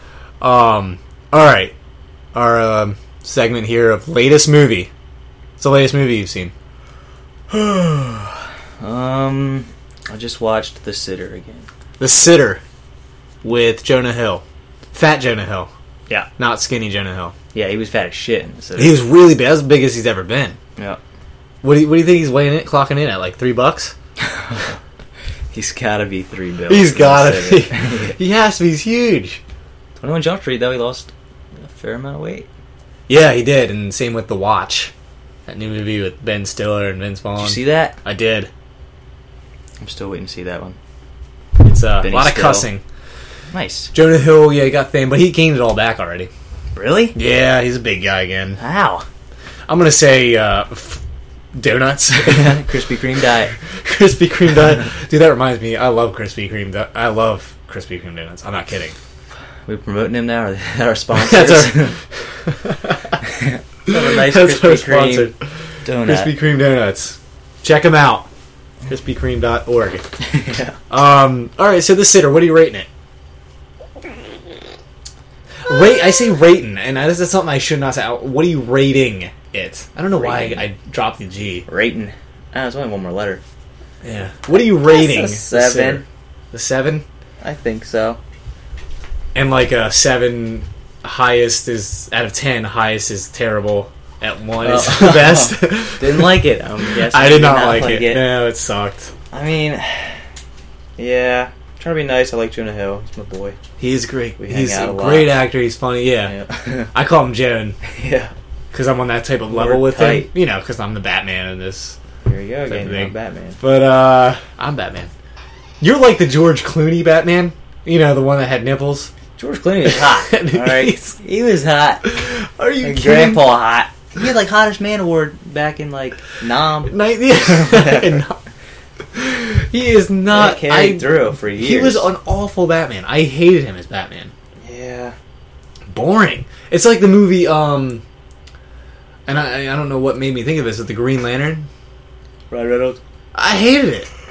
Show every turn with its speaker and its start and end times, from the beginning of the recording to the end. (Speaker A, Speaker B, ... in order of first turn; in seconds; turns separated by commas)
Speaker A: 0.4-1.7, Speaker A: 2.3-4.9, Speaker A: 5.6-6.5, Speaker B: 7.5-11.7, Speaker A: 12.0-12.6, Speaker A: 13.4-15.7, Speaker A: 16.4-17.3, Speaker B: 17.5-19.0, Speaker A: 18.8-20.6, Speaker A: 21.6-23.9, Speaker B: 24.3-24.6, Speaker B: 25.5-28.2, Speaker A: 26.7-29.4, Speaker B: 30.0-31.1, Speaker B: 31.6-32.5, Speaker A: 33.1-34.9, Speaker A: 35.5-38.5, Speaker B: 37.4-38.0, Speaker B: 39.8-40.8, Speaker A: 41.6-42.8, Speaker B: 42.0-42.7, Speaker B: 43.5-43.9, Speaker A: 43.9-46.3, Speaker B: 46.7-47.2, Speaker A: 47.1-48.6, Speaker B: 48.6-49.0, Speaker A: 49.7-51.0, Speaker A: 51.5-52.6, Speaker B: 52.2-53.5, Speaker A: 53.8-59.0, Speaker B: 59.6-62.0, Speaker A: 61.1-61.9, Speaker A: 62.4-63.1, Speaker B: 63.2-65.3, Speaker A: 63.9-65.3, Speaker B: 65.8-66.3, Speaker A: 66.0-68.3, Speaker A: 68.9-70.0, Speaker B: 70.2-70.8, Speaker A: 70.9-72.9, Speaker A: 75.7-81.7, Speaker B: 80.1-80.6, Speaker B: 81.7-83.4, Speaker A: 84.0-87.0, Speaker B: 84.9-86.0, Speaker B: 87.4-88.2, Speaker A: 89.3-96.4, Speaker B: 94.6-98.3, Speaker A: 97.0-99.1, Speaker B: 99.3-100.2, Speaker B: 101.0-103.6, Speaker A: 103.8-106.3, Speaker B: 104.4-105.4, Speaker B: 106.2-106.9, Speaker A: 106.9-107.8, Speaker B: 107.8-108.3, Speaker A: 108.7-112.0, Speaker B: 109.5-110.3, Speaker B: 112.2-113.6, Speaker A: 112.7-115.1, Speaker A: 115.8-119.1, Speaker B: 119.4-122.0, Speaker A: 119.9-121.1, Speaker A: 122.0-123.5, Speaker B: 122.8-128.2, Speaker A: 126.9-128.4, Speaker A: 129.1-134.3, Speaker B: 130.3-132.1, Speaker B: 134.6-135.1, Speaker A: 135.9-138.0, Speaker A: 139.3-141.7, Speaker B: 142.5-143.0, Speaker A: 143.3-144.1